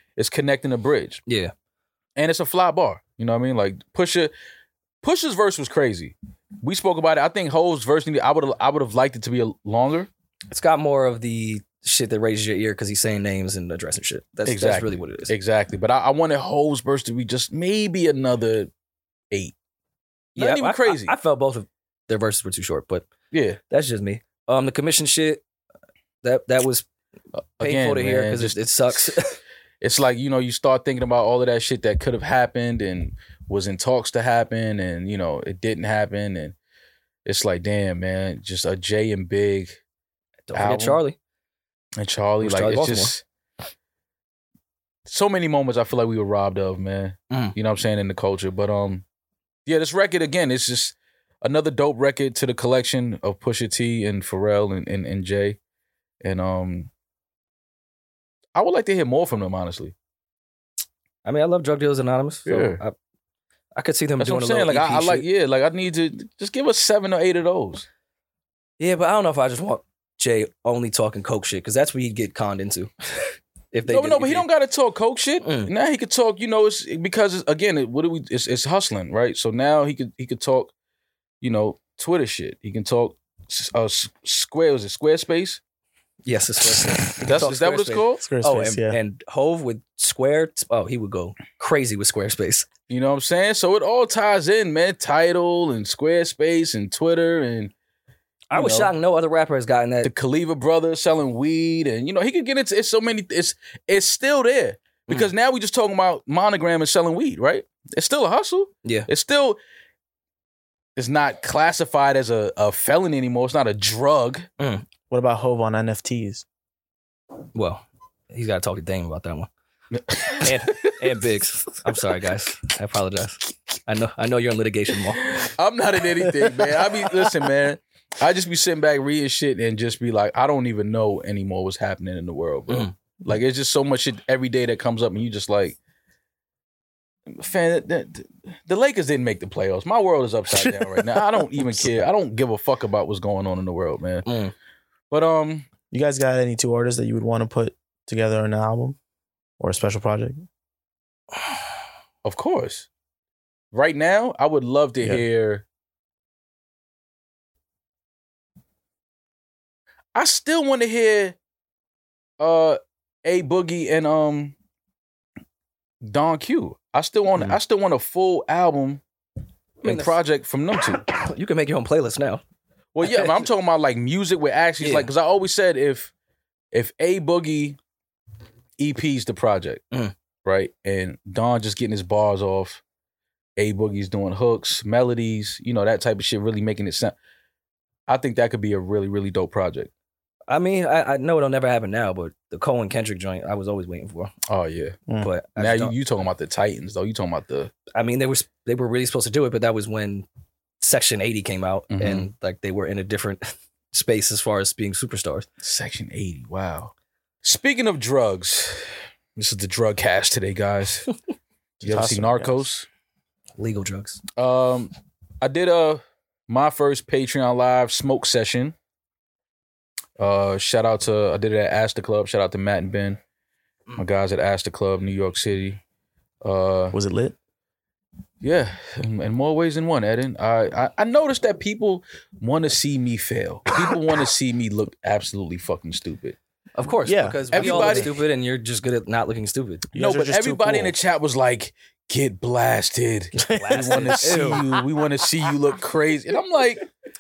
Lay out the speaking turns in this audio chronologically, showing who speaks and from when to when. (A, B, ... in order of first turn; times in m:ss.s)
0:00.2-0:01.2 A
0:01.3-0:01.5 B
0:02.2-0:04.3 A
0:05.0-0:10.1 A
0:10.5-0:15.3 B
0:14.5-0:18.7 A
0:20.4-0:21.2 A
0:20.4-0:23.1 B
0:23.3-0:23.6 A
0:23.7-0:25.4 B
0:26.2-0:26.9 B
0:27.6-0:29.1 A
0:27.6-0:29.4 B
0:29.8-0:36.6 A
0:37.2-0:39.8 A
0:40.5-0:41.2 B
0:40.5-0:41.0 A
0:42.0-0:43.2 A
0:42.4-0:43.1 B
0:45.1-0:49.0 A
0:47.3-0:47.6 B
0:49.7-0:55.6 A
0:56.2-0:56.9 A
0:58.6-0:59.9 A
1:01.2-1:03.0 B
1:02.5-1:02.8 A
1:03.8-1:05.3 B
1:04.2-1:07.9 A
1:08.8-1:14.5 B
1:13.9-1:20.7 A
1:15.4-1:15.7 B
1:21.4-1:25.6 A
1:26.2-1:32.7 B
1:27.2-1:28.2 A
1:28.2-1:29.0 C
1:32.9-1:37.7 A
1:38.5-1:40.1 B
1:38.5-1:38.9 A
1:40.0-1:49.6 A
1:51.0-1:54.5 A
1:54.6-1:54.8 B
1:55.1-1:56.4 C
1:57.5-1:59.5 B
2:00.0-2:01.0 A
2:00.4-2:05.4 B
2:05.2-2:15.8 A
2:17.3-2:24.3 A
2:24.2-2:24.5 B
2:25.1-2:25.7 A
2:25.9-2:29.0 C
2:29.6-2:30.5 C
2:32.2-2:32.9 A
2:33.7-2:35.6 A
2:40.2-2:41.4 A
2:42.4-2:44.6 A
2:46.0-2:49.0 A
2:49.8-2:50.2 B
2:49.8-2:51.0 A
2:51.1-2:52.4 B
2:53.0-2:56.1 A
2:53.0-2:53.4 B
2:54.8-2:55.1 B
2:56.7-2:57.8 A
2:58.8-2:59.8 A
3:00.4-3:02.8 A
3:03.6-3:07.2 A
3:08.1-3:09.9 A
3:10.5-3:14.3 B
3:14.5-3:15.0 A
3:15.2-3:15.9 B
3:15.6-3:17.7 A
3:17.9-3:20.3 B
3:20.8-3:25.5 B
3:21.9-3:22.3 A
3:25.6-3:26.9 A
3:27.4-3:31.1 A
3:31.8-3:32.7 C
3:31.8-3:32.9 A
3:33.6-3:34.2 B
3:34.4-3:38.8 A
3:40.2-3:43.2 A
3:44.0-3:45.8 A
3:46.4-3:47.0 A
3:46.9-3:47.4 C
3:48.4-3:56.4 A
3:56.8-3:59.9 B
3:57.0-3:58.1 C
3:57.5-3:58.2 A
3:59.9-4:00.9 C
4:00.0-4:06.9 A
4:03.3-4:04.6 B
4:03.5-4:04.8 C